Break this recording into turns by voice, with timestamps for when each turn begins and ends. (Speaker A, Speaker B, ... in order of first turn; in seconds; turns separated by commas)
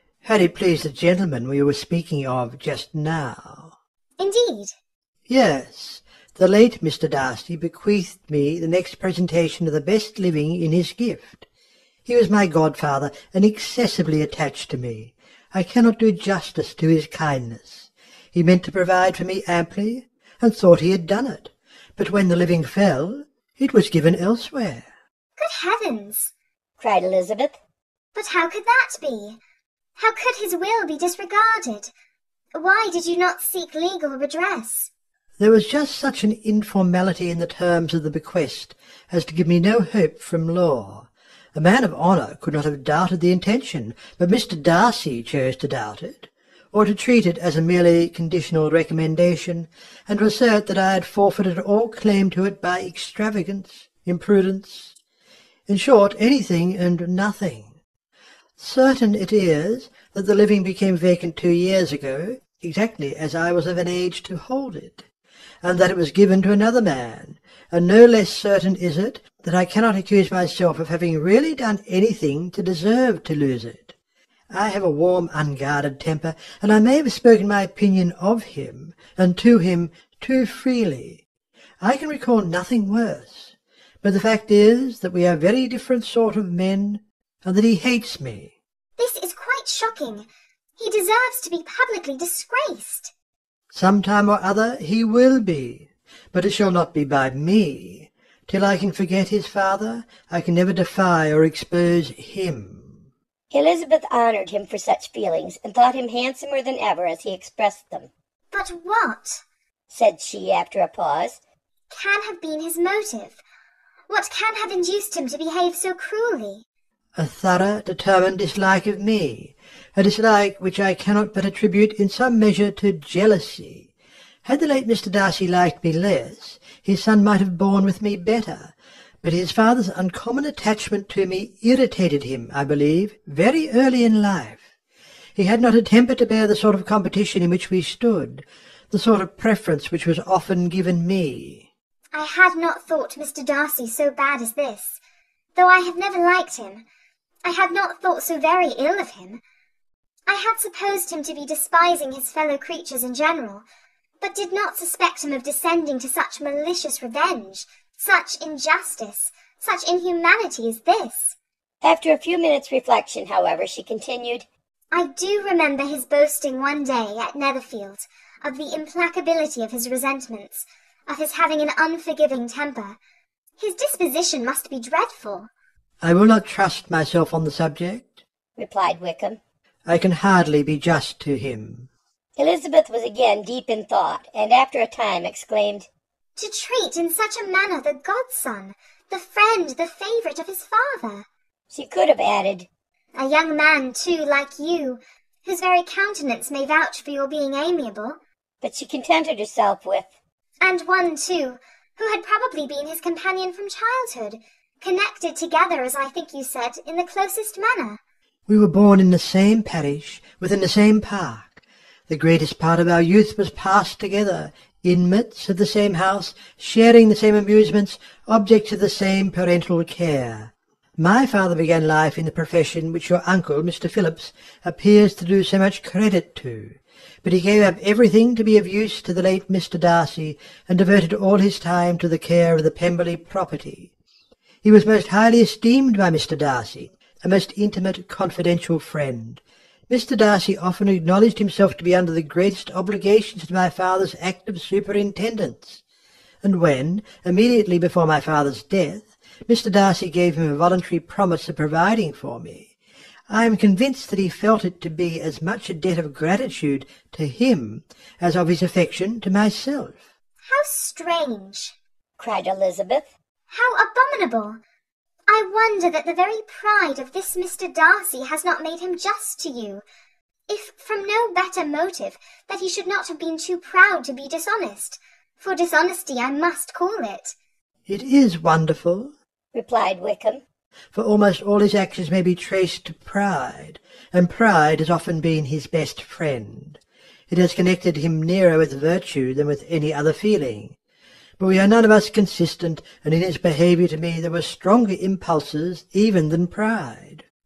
Speaker A: 0.2-3.7, Speaker B: 4.2-4.8, Speaker A: 5.3-11.5, Speaker A: 12.1-24.9, Speaker B: 25.4-26.3, Speaker C: 26.8-27.6, Speaker B: 28.1-29.4, Speaker B: 30.0-31.9, Speaker B: 32.6-34.9, Speaker A: 35.4-55.0, Speaker A: 55.7-57.7, Speaker A: 58.6-65.0, Speaker A: 65.6-74.0, Speaker A: 74.5-81.2, Speaker A: 81.8-88.5, Speaker B: 89.0-93.1, Speaker A: 93.7-103.0, Speaker C: 103.5-108.1, Speaker B: 108.5-109.4, Speaker C: 109.9-111.4, Speaker B: 111.9-113.4, Speaker B: 114.1-116.7, Speaker A: 117.2-123.9, Speaker A: 124.5-134.7, Speaker A: 135.4-141.7, Speaker B: 142.1-145.0, Speaker B: 145.6-146.8, Speaker B: 147.4-149.4, Speaker B: 150.3-153.7, Speaker B: 154.2-161.4, Speaker C: 161.8-164.4, Speaker B: 164.9-173.0, Speaker B: 173.6-175.5, Speaker A: 176.0-178.2, Speaker C: 178.6-179.4, Speaker A: 179.9-181.9, Speaker C: 182.4-185.9, Speaker B: 186.4-191.3, Speaker C: 191.7-192.7, Speaker B: 193.2-198.2, Speaker C: 198.6-200.1, Speaker B: 200.6-208.0, Speaker A: 208.5-233.9, Speaker A: 234.6-245.8, Speaker A: 246.4-252.7, Speaker A: 253.3-260.0, Speaker B: 260.5-261.8, Speaker C: 262.2-263.1, Speaker B: 263.5-264.6, Speaker B: 265.3-269.9, Speaker B: 270.5-277.4, Speaker A: 277.9-279.1, Speaker C: 279.5-280.4, Speaker A: 280.9-290.8, Speaker A: 291.4-297.2